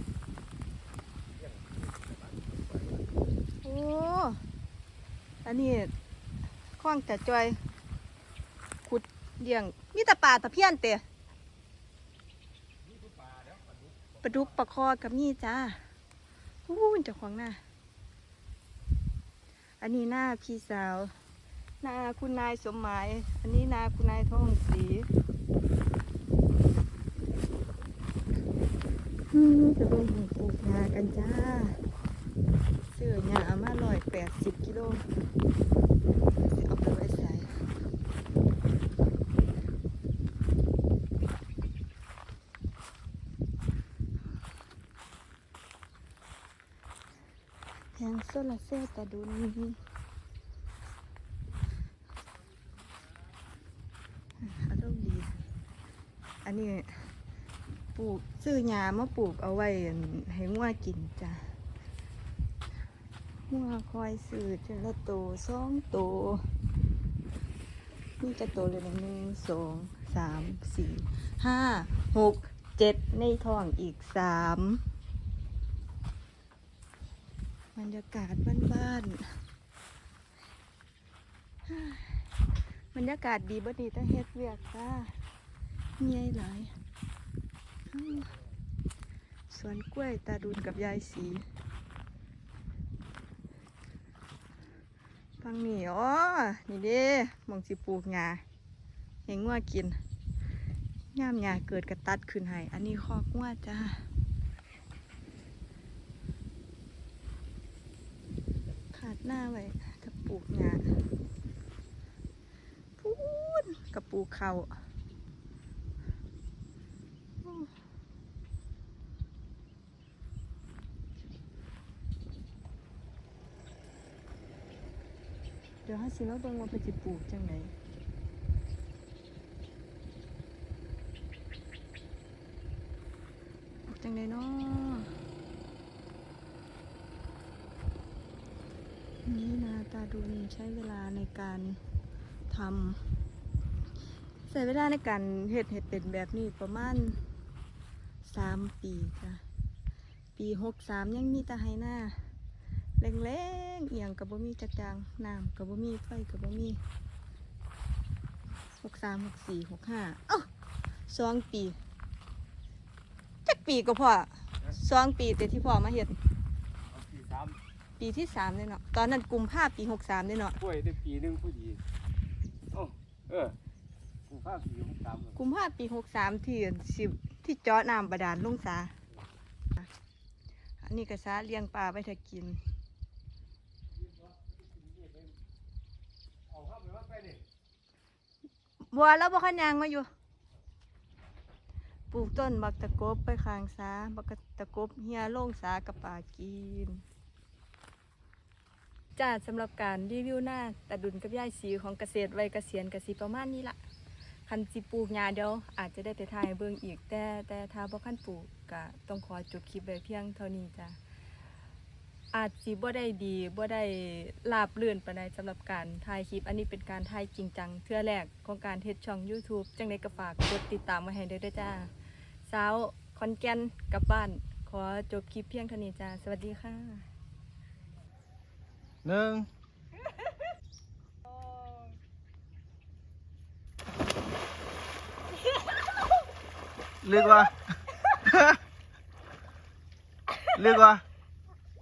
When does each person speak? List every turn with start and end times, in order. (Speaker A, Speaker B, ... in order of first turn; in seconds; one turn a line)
Speaker A: 1.3-3.2
Speaker B: 3.6-4.4
Speaker B: 5.4-5.9
Speaker B: 6.8-7.6
Speaker B: 8.8-11.0
Speaker A: 12.8-14.5
Speaker B: 14.2-15.8
Speaker B: 16.7-17.6
Speaker B: 19.8-21.1
Speaker B: 21.8-25.1
Speaker B: 29.3-31.8
Speaker B: 32.9-35.0
Speaker B: 36.5-37.5
Speaker B: 48.0-49.8
Speaker B: 54.4-55.4
Speaker B: 56.5-57.1
Speaker B: 58.0-61.5
Speaker B: 63.5-66.4
Speaker B: 68.2-74.8
Speaker B: 77.8-79.3
Speaker B: 81.7-82.2
Speaker B: 82.9-85.1
Speaker B: 86.0-86.7
Speaker B: 87.9-88.3
Speaker B: 89.5-91.4
Speaker B: 95.4-98.4
Speaker B: 99.3-100.0
Speaker B: 101.1-104.0
Speaker B: 108.9-110.9
Speaker B: 113.0-114.8
Speaker B: 117.4-117.7
Speaker B: 125.9-127.7
Speaker B: 133.9-135.1
Speaker B: 139.2-141.8
Speaker B: 142.5-143.0
Speaker B: 144.5-147.2
Speaker B: 148.2-149.4
Speaker B: 150.4-152.2
Speaker B: 153.0-156.8
Speaker B: 158.8-160.5
Speaker B: 161.1-161.8
Speaker B: 163.5-166.2
Speaker A: 166.9-167.6
Speaker B: 168.0-170.6
Speaker A: 170.6-171.8
Speaker A: 172.7-173.6
Speaker A: 174.3-175.4
Speaker B: 175.4-178.9
Speaker B: 180.8-182.6
Speaker A: 183.9-185.3
Speaker A: 186.5-187.4
Speaker B: 188.9-190.1
Speaker B: 192.1-197.0
Speaker B: 199.2-203.8
Speaker B: 204.5-211.0
Speaker B: 212.3-221.9
Speaker B: 222.5-227.1
Speaker C: 229.0-229.5
Speaker C: 237.0-237.5
Speaker C: 238.2-238.6
Speaker C: 240.5-241.0